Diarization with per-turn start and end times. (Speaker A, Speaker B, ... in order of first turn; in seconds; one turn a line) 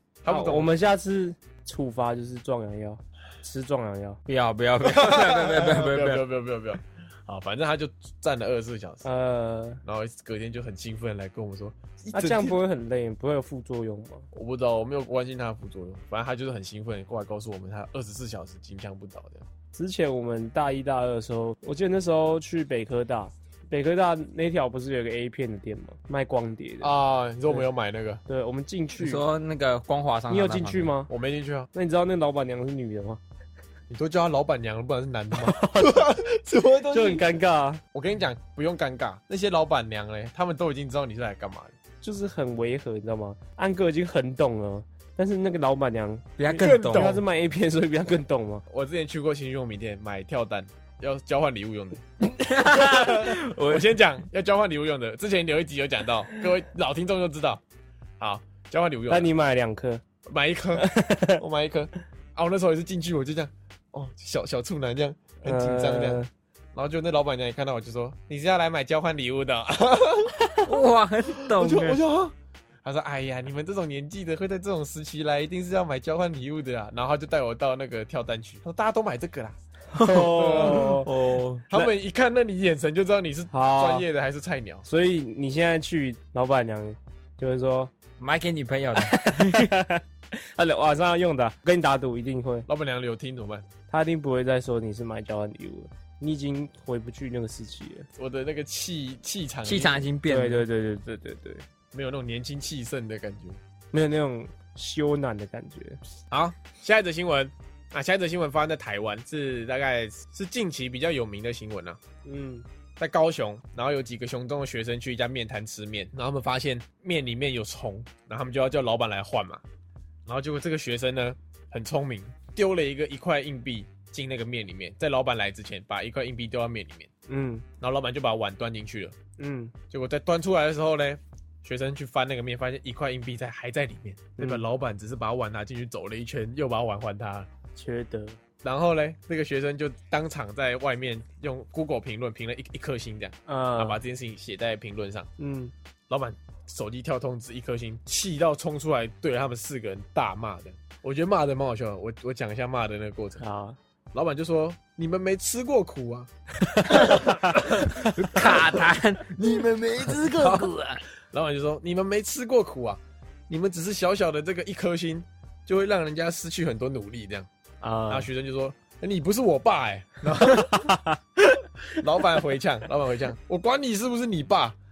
Speaker A: 0.2-0.7
Speaker B: 0.3-4.2
Speaker C: 4.3-6.2
Speaker A: 4.8-9.0
Speaker B: 9.0-9.8
Speaker A: 9.8-12.6
Speaker B: 12.1-14.3
Speaker A: 14.3-19.4
Speaker B: 19.7-26.9
Speaker A: 26.8-28.2
Speaker B: 28.2-29.2
Speaker C: 29.0-30.9
Speaker B: 30.3-31.1
Speaker A: 31.1-31.7
Speaker B: 31.7-33.2
Speaker A: 33.9-37.3
Speaker B: 35.3-36.1
Speaker B: 36.9-37.8
Speaker A: 37.9-41.7
Speaker B: 42.0-48.6
Speaker C: 46.4-47.2
Speaker A: 46.5-47.2
Speaker A: 48.7-52.0
Speaker C: 52.4-54.0
Speaker A: 52.6-57.6
Speaker A: 58.2-59.3
Speaker B: 59.1-60.0
Speaker A: 60.2-60.9
Speaker B: 60.8-61.4
Speaker A: 61.4-66.2
Speaker B: 65.4-66.3
Speaker A: 66.7-70.7
Speaker C: 70.6-72.0
Speaker A: 71.4-79.5
Speaker C: 79.9-81.9
Speaker B: 79.9-81.1
Speaker A: 80.1-81.0
Speaker A: 81.7-84.8
Speaker B: 83.5-84.0
Speaker B: 84.8-87.9
Speaker C: 88.2-89.7
Speaker B: 89.0-92.7
Speaker A: 92.7-93.7
Speaker B: 93.9-98.1
Speaker A: 98.2-100.1
Speaker C: 99.6-100.7
Speaker B: 100.3-101.6
Speaker A: 101.9-103.6
Speaker B: 103.9-106.0
Speaker A: 106.3-112.0
Speaker B: 112.2-112.6
Speaker A: 113.0-119.6
Speaker A: 120.2-127.1
Speaker B: 127.3-127.6
Speaker A: 127.8-129.2
Speaker B: 129.4-129.7
Speaker A: 129.9-137.5
Speaker B: 134.4-134.6
Speaker B: 137.8-138.4
Speaker A: 138.6-145.3
Speaker B: 143.4-144.0
Speaker B: 145.4-145.7
Speaker A: 146.1-153.4
Speaker B: 153.4-153.8
Speaker A: 154.1-156.3
Speaker B: 156.7-158.4
Speaker A: 156.8-158.8
Speaker C: 157.1-161.0
Speaker A: 159.4-160.7
Speaker A: 161.3-167.5
Speaker B: 167.8-168.3
Speaker A: 168.1-171.0
Speaker B: 170.6-171.2
Speaker A: 171.9-174.8